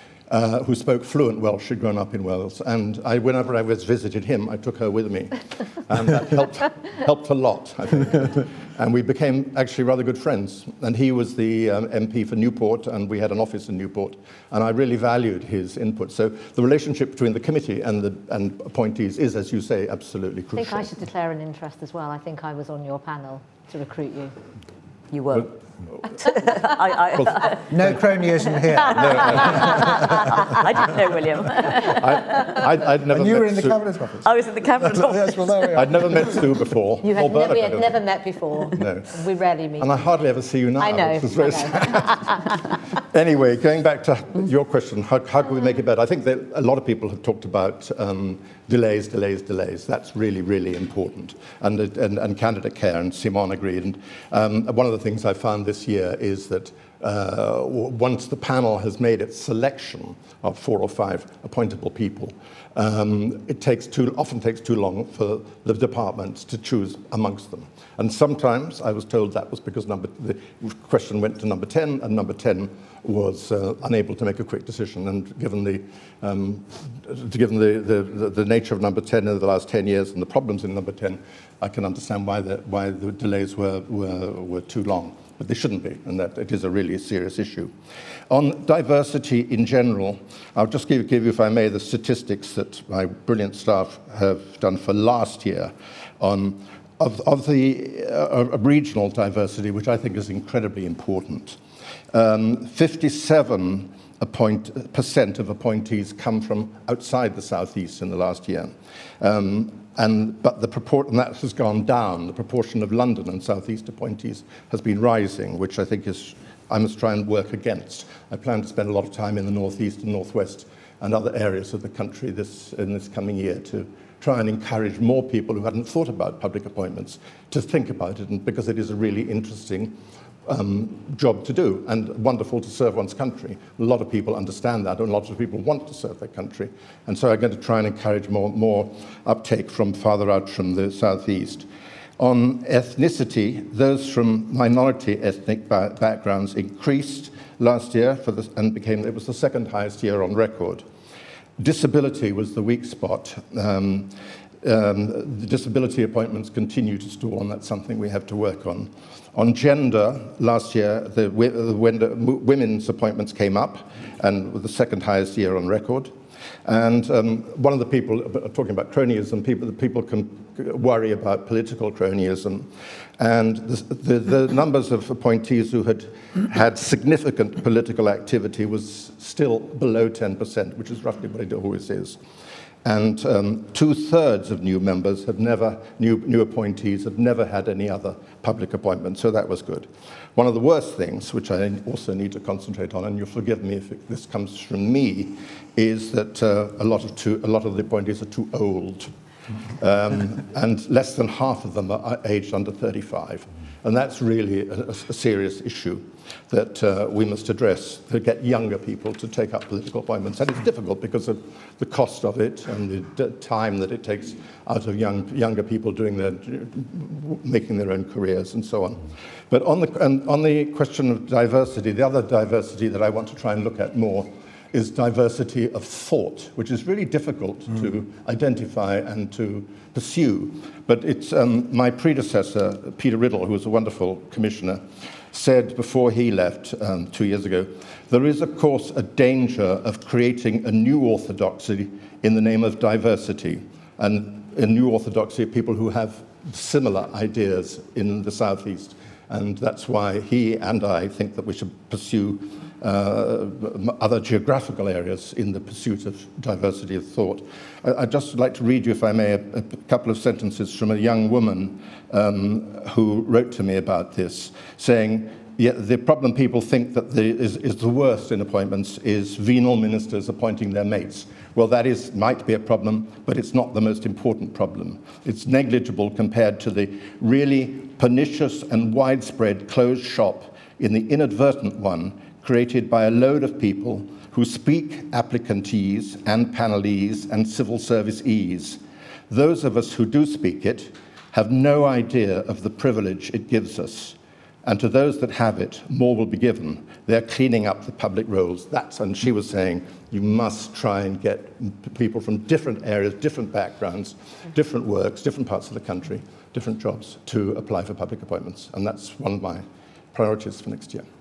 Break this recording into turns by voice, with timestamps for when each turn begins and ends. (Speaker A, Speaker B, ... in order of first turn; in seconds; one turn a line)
Speaker A: 0.3-20.9
Speaker B: 20.5-24.4
Speaker C: 25.1-25.6
Speaker C: 26.2-27.7
Speaker A: 27.1-28.0
Speaker D: 27.7-30.9
Speaker C: 28.8-32.5
Speaker A: 28.9-30.9
Speaker A: 31.8-33.8
Speaker D: 32.4-36.5
Speaker C: 34.2-35.7
Speaker A: 35.7-38.0
Speaker B: 37.0-40.0
Speaker A: 38.7-39.1
Speaker A: 39.8-42.3
Speaker B: 40.8-42.7
Speaker A: 43.1-87.7
Speaker A: 88.3-101.6
Speaker A: 102.1-141.7
Speaker A: 142.2-150.9
Speaker A: 151.6-166.1
Speaker A: 166.6-182.2
Speaker A: 182.8-199.1
Speaker A: 199.7-311.1